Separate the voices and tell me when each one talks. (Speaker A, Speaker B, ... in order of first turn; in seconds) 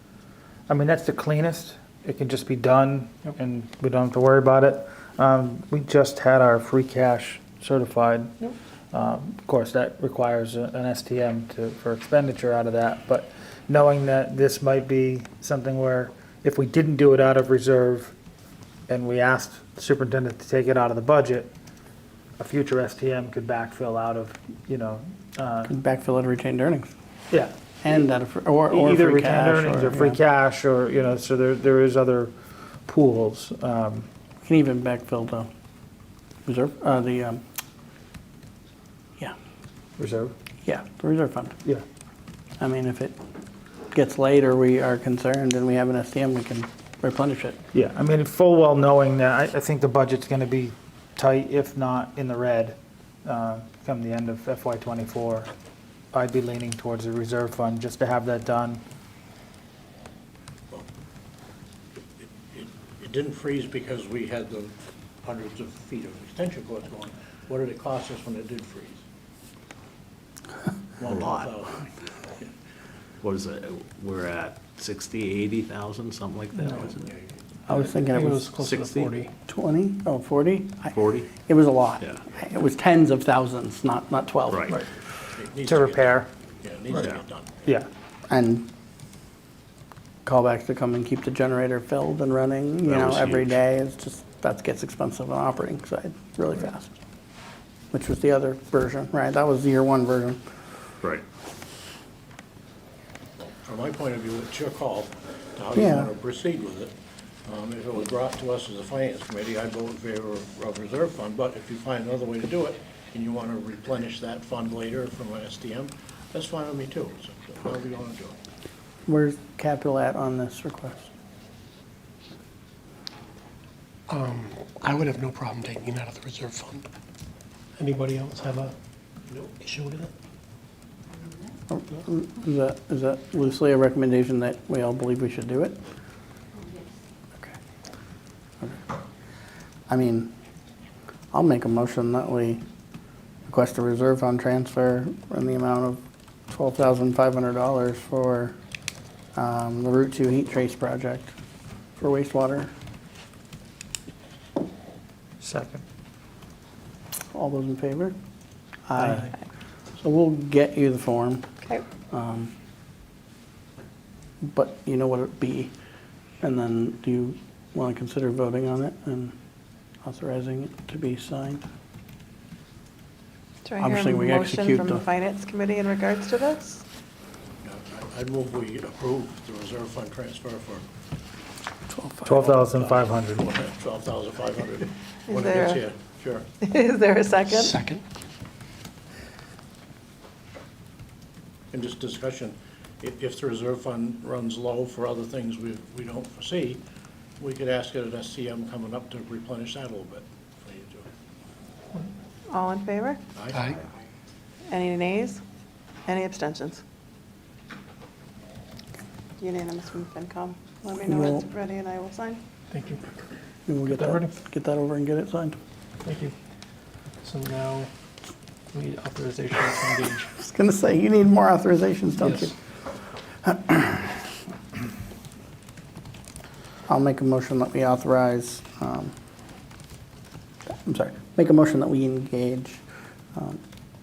Speaker A: 0.7-8.3, 8.9-18.1, 18.9-21.5, 22.4-25.7, 28.7-32.3, 32.8-34.1, 40.0-40.3, 47.7-55.5, 56.1-58.8, 85.7-86.3, 155.4-155.8, 182.2-183.4
Speaker B: 25.6-26.9, 27.8-30.2, 34.4-35.5, 36.5-37.4, 40.6-41.6, 42.6-43.1, 43.9-47.6, 77.7-78.5, 79.5-84.7, 88.3-88.7, 90.2-96.9, 97.9-100.4, 105.7-106.1, 119.0-121.1, 131.7-135.8, 139.9-140.3, 141.3-142.6, 143.5-148.5, 149.3-151.3, 152.0-152.7, 157.3-158.1, 158.9-159.3, 160.0-161.4, 162.1-162.5, 164.4-165.7, 166.4-169.3, 170.0-171.6, 173.8-175.0, 181.9-182.4, 211.1-211.4, 213.7-215.6, 220.4-222.6, 223.4-224.2, 226.9-229.1, 230.7-232.8, 233.3-233.6
Speaker C: 62.2-69.0, 71.0-71.8, 76.6-77.9, 85.3-87.6, 103.4-106.9, 107.4-118.4, 177.6-180.9, 182.5-186.5, 191.7-196.8, 197.4-201.1, 203.3-203.7
Speaker D: 71.0-71.5, 73.2-77.1, 78.5-79.2, 80.9-81.3, 84.5-84.8, 92.9-93.5
Speaker E: 78.1-79.3, 124.1-126.9, 127.8-128.7, 129.3-130.1, 187.5-188.0, 212.7-213.0, 213.8-214.3, 216.0-216.3, 217.2-217.9, 218.7-220.3
Speaker F: 173.6-176.8, 185.3-185.8, 186.6-187.8, 202.5-203.2, 204.7-205.4, 206.1-206.8, 209.4-212.4